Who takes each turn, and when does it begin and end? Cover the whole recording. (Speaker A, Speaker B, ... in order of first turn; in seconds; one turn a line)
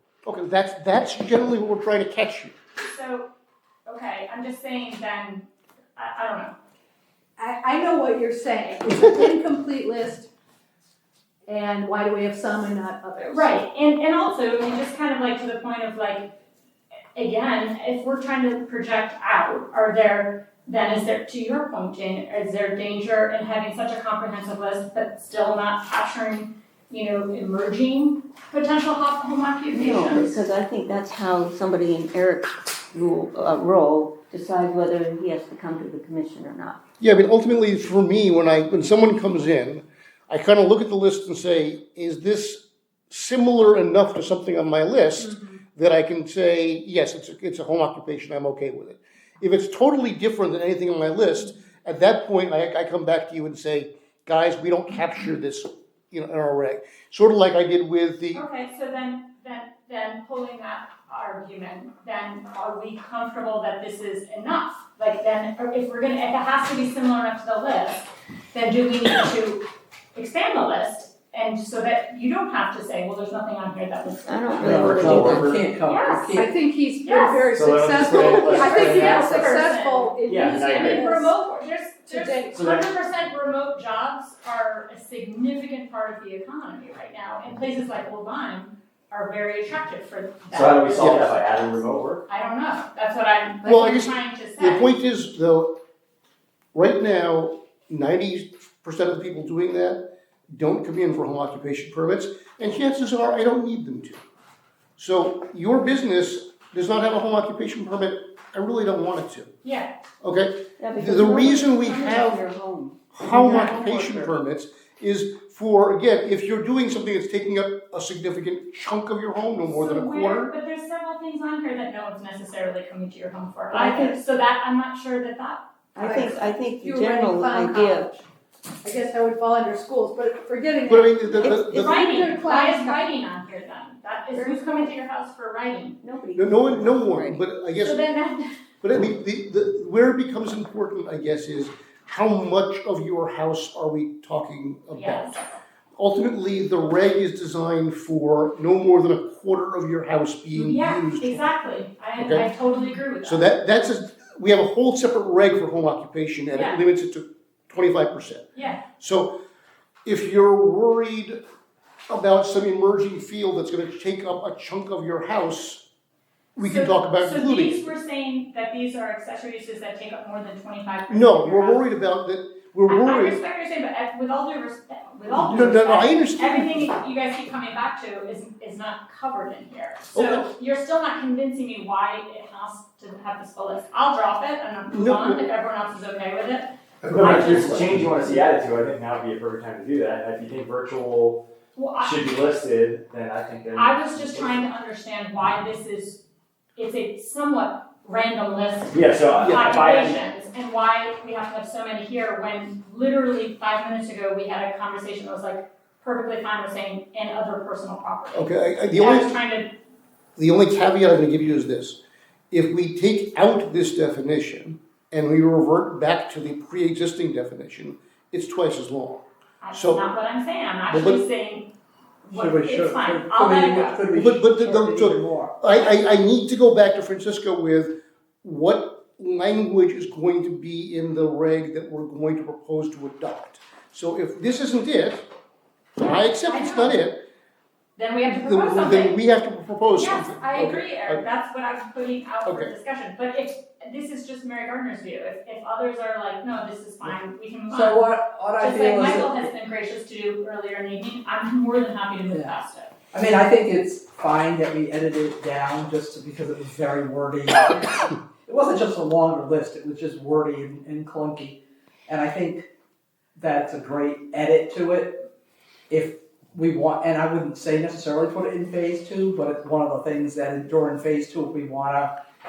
Speaker A: 0.2-2.5
Speaker B: 2.8-3.3
Speaker B: 3.9-6.5
Speaker C: 7.4-10.3
Speaker C: 11.5-13.5
Speaker B: 13.2-16.3
Speaker B: 17.1-30.3
Speaker D: 29.7-36.8
Speaker A: 37.0-58.4
Speaker B: 58.3-69.6
Speaker B: 70.1-76.3
Speaker D: 74.2-75.5
Speaker E: 74.6-76.5
Speaker F: 75.0-75.6
Speaker C: 76.3-81.3
Speaker B: 77.0-77.5
Speaker F: 77.5-79.5
Speaker B: 78.0-91.4
Speaker F: 80.2-81.0
Speaker C: 82.1-82.6
Speaker F: 82.5-82.9
Speaker F: 90.5-92.2
Speaker A: 91.0-91.2
Speaker B: 92.3-94.9
Speaker A: 93.6-95.7
Speaker A: 96.7-104.2
Speaker A: 105.0-109.5
Speaker B: 109.6-109.9
Speaker A: 110.2-112.4
Speaker D: 110.8-114.3
Speaker A: 113.1-120.5
Speaker B: 113.3-113.8
Speaker B: 119.7-125.6
Speaker D: 123.7-124.2
Speaker D: 125.9-128.1
Speaker C: 126.0-128.2
Speaker C: 128.8-133.0
Speaker A: 130.9-132.0
Speaker B: 131.7-136.0
Speaker D: 134.3-134.8
Speaker D: 136.0-137.4
Speaker A: 136.3-138.0
Speaker B: 137.8-138.5
Speaker A: 138.8-145.4
Speaker B: 144.9-145.3
Speaker A: 146.0-151.4
Speaker B: 150.5-153.5
Speaker A: 152.2-152.4
Speaker A: 153.2-158.4
Speaker B: 156.5-156.8
Speaker B: 158.6-158.8
Speaker A: 159.0-159.3
Speaker A: 160.0-161.4
Speaker A: 162.1-165.8
Speaker A: 166.6-167.9
Speaker B: 166.6-171.8
Speaker A: 171.1-173.4
Speaker B: 172.9-188.3
Speaker A: 175.3-176.9
Speaker A: 180.1-180.5
Speaker A: 184.9-185.4
Speaker F: 187.1-191.4
Speaker A: 187.1-187.9
Speaker B: 191.7-192.2
Speaker F: 192.0-194.6
Speaker B: 193.7-196.2
Speaker B: 196.8-209.7
Speaker F: 198.9-200.3
Speaker A: 199.4-199.6
Speaker A: 208.3-209.3
Speaker A: 210.4-212.0
Speaker A: 212.5-220.0
Speaker B: 219.6-221.7
Speaker A: 220.9-221.2
Speaker B: 222.3-224.0
Speaker E: 222.3-225.5
Speaker A: 224.1-227.9
Speaker A: 228.4-235.2
Speaker A: 236.0-237.2
Speaker B: 236.4-237.0
Speaker B: 237.9-239.2
Speaker A: 238.3-241.2
Speaker B: 239.9-252.9
Speaker A: 242.4-242.7
Speaker E: 247.7-249.4
Speaker E: 252.3-252.6
Speaker E: 253.1-262.7
Speaker E: 263.3-265.2
Speaker E: 265.9-272.1